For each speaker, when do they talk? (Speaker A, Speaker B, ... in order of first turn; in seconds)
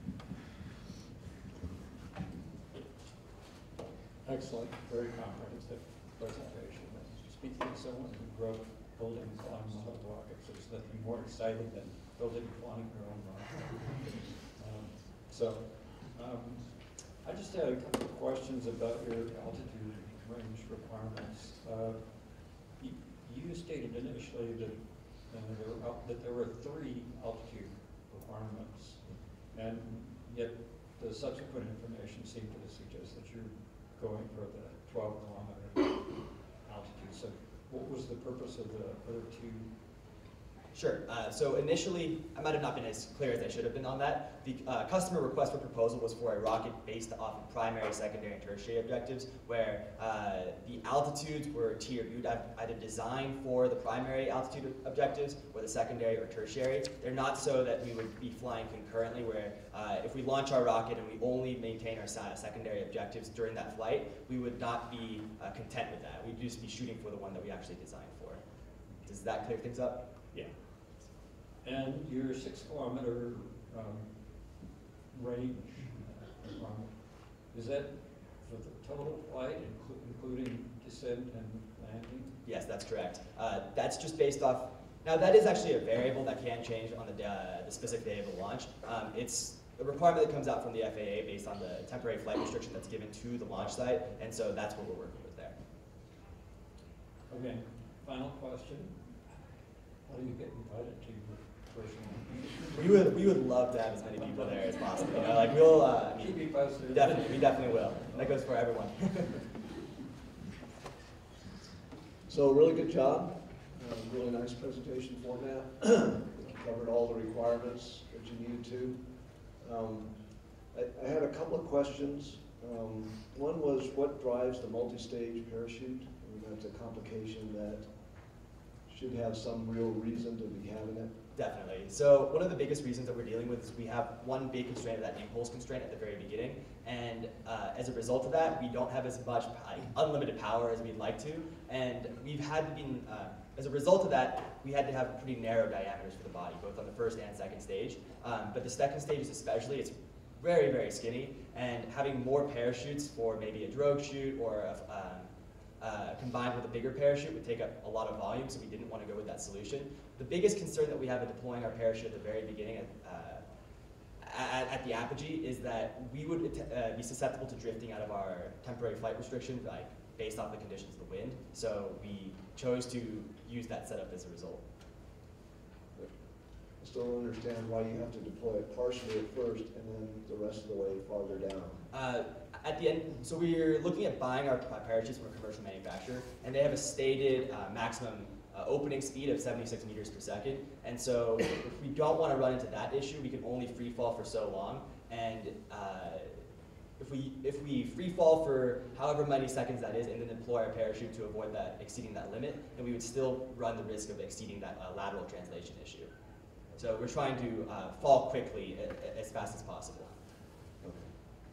Speaker A: 4.2-39.8, 71.6-82.4, 97.3-99.2, 100.0-103.1, 104.2-105.6, 106.1-108.4
Speaker B: 40.7-68.4, 69.0-70.5, 82.4-95.5, 102.7-109.4, 131.3-163.4, 164.2-174.6, 181.9-196.4, 197.0-206.1, 206.8-210.2
Speaker C: 112.2-127.9, 128.9-131.1, 176.8-181.8, 210.8-211.2